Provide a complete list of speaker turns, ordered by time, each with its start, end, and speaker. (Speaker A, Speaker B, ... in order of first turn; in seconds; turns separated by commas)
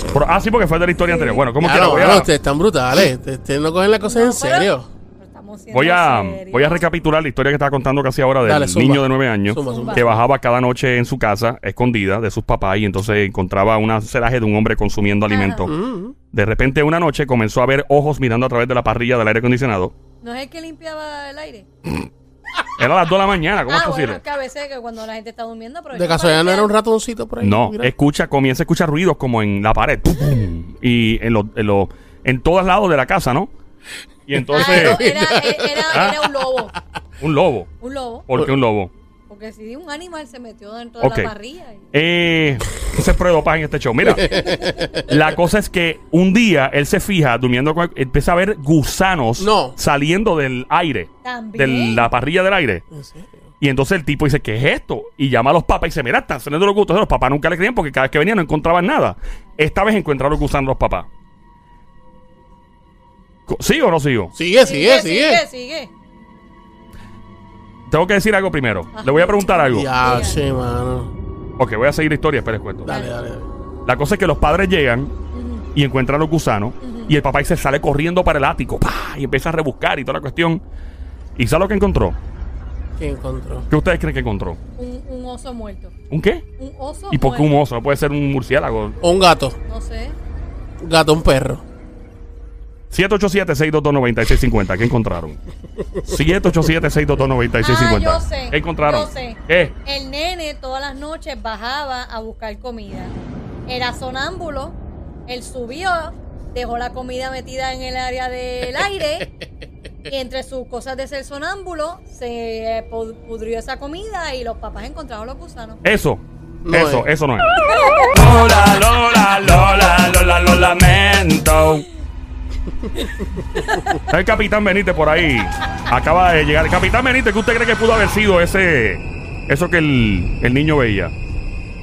Speaker A: 0.1-2.3, Speaker B: 1.1-1.4, Speaker C: 1.6-4.9, Speaker B: 4.0-6.9, Speaker A: 5.7-15.7, Speaker C: 8.4-10.1, Speaker B: 9.7-10.1, Speaker B: 15.3-15.7, Speaker C: 15.7-16.2, Speaker A: 16.3-19.9, Speaker B: 20.2-21.7, Speaker A: 22.8-24.2, Speaker B: 23.7-26.7, Speaker C: 25.9-27.9, Speaker A: 27.4-33.5, Speaker A: 34.3-35.0, Speaker C: 34.5-36.1, Speaker B: 34.5-36.7, Speaker A: 35.9-36.3, Speaker A: 37.2-37.7, Speaker B: 37.8-38.3, Speaker A: 38.3-38.9, Speaker B: 39.3-41.8, Speaker A: 41.0-41.3, Speaker A: 41.9-44.4, Speaker C: 44.0-45.2, Speaker B: 44.2-44.9, Speaker A: 45.1-52.8, Speaker C: 49.4-49.8, Speaker B: 51.2-52.1, Speaker C: 52.9-53.4, Speaker A: 53.6-61.1, Speaker A: 63.5-64.3, Speaker C: 64.3-65.4, Speaker B: 64.6-65.9, Speaker A: 67.9-69.9, Speaker B: 68.9-70.4, Speaker C: 69.7-71.1, Speaker A: 71.6-72.9, Speaker C: 72.8-73.5, Speaker B: 72.9-73.2, Speaker A: 73.8-75.1, Speaker B: 75.3-75.7, Speaker A: 75.8-80.6, Speaker B: 76.8-77.2, Speaker A: 81.4-82.2, Speaker C: 83.0-83.7, Speaker A: 83.7-84.6, Speaker B: 84.8-85.9, Speaker A: 86.1-86.5, Speaker B: 86.6-87.5, Speaker A: 87.1-89.0, Speaker C: 89.0-89.6, Speaker B: 89.7-90.2, Speaker C: 90.8-91.6, Speaker A: 92.9-95.4, Speaker A: 96.0-99.7, Speaker B: 97.6-103.2, Speaker B: 103.7-109.3, Speaker B: 110.1-115.8, Speaker A: 115.8-121.9, Speaker C: 116.7-117.1, Speaker B: 117.6-118.1, Speaker B: 123.5-124.0, Speaker A: 124.1-131.1